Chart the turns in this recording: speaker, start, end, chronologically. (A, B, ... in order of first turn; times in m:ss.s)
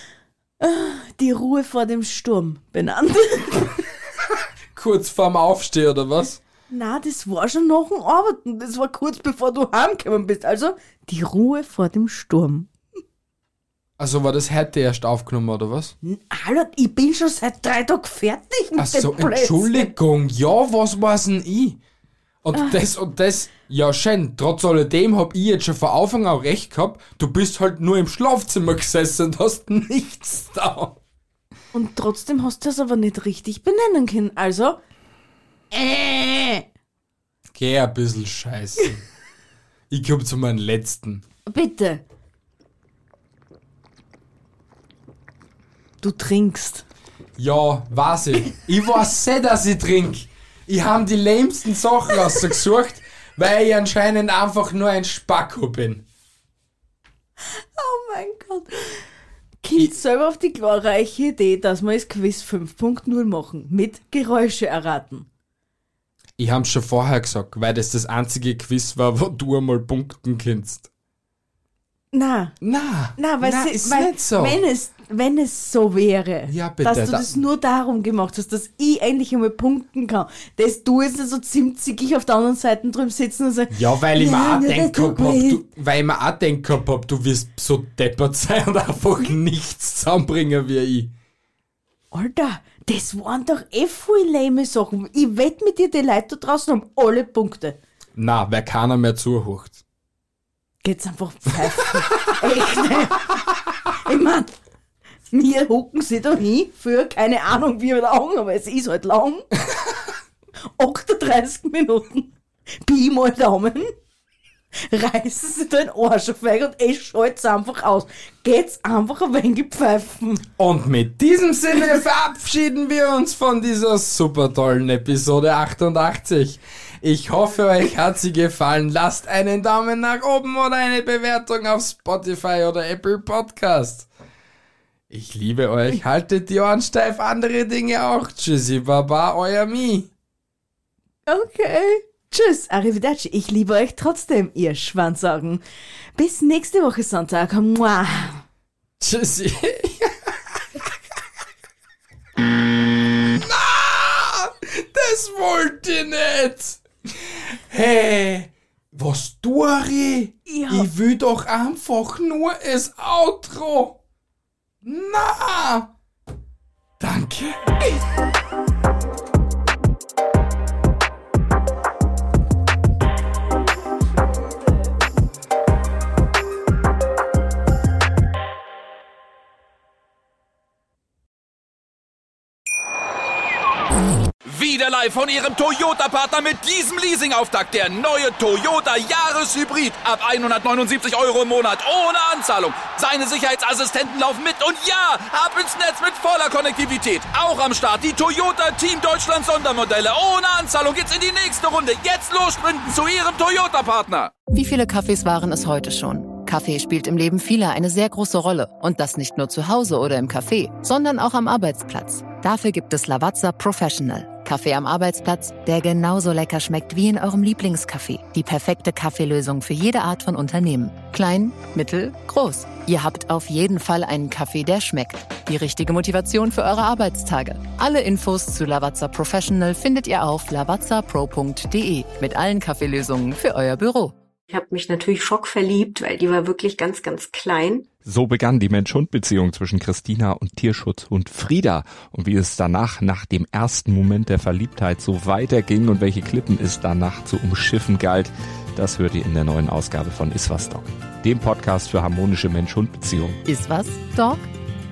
0:00.6-0:03.8 A
0:04.8-0:06.4 B
0:06.7-0:12.7 A
0:14.0-0:15.9 B
0:16.0-0:19.9 A
0:18.8-0:21.8 B
0:22.4-0:31.0 B
0:31.7-0:34.8 A
0:35.7-0:36.6 A
0:37.5-0:39.0 B
0:39.9-0:41.2 B
0:41.5-0:42.0 A
0:46.0-0:46.8 A
0:47.4-0:56.0 B
0:57.5-0:59.1 A
0:59.6-1:05.3 A
1:06.4-1:10.9 B
1:12.1-1:12.6 A
1:12.6-1:14.6 B
1:13.2-1:25.6 A
1:16.5-1:17.4 B
1:23.7-1:31.1 B
1:32.1-1:37.8 A
1:38.2-1:39.8 B
1:40.8-1:43.4 A
1:44.0-1:44.5 A
1:45.3-1:49.5 A
1:50.6-1:53.9 A
1:54.8-2:00.5 A
2:00.6-2:14.1 B
2:15.1-2:20.1 B
2:21.3-2:25.6 A
2:26.2-2:28.4 A
2:29.0-2:30.6 B
2:33.2-2:44.0 B
2:40.5-2:40.9 A
2:44.8-2:45.9 B
2:47.0-2:48.0 B
3:04.4-3:24.3 C
3:24.5-3:54.1 D
3:54.5-3:57.9 E
3:58.0-4:13.4 F
4:13.5-4:14.5 D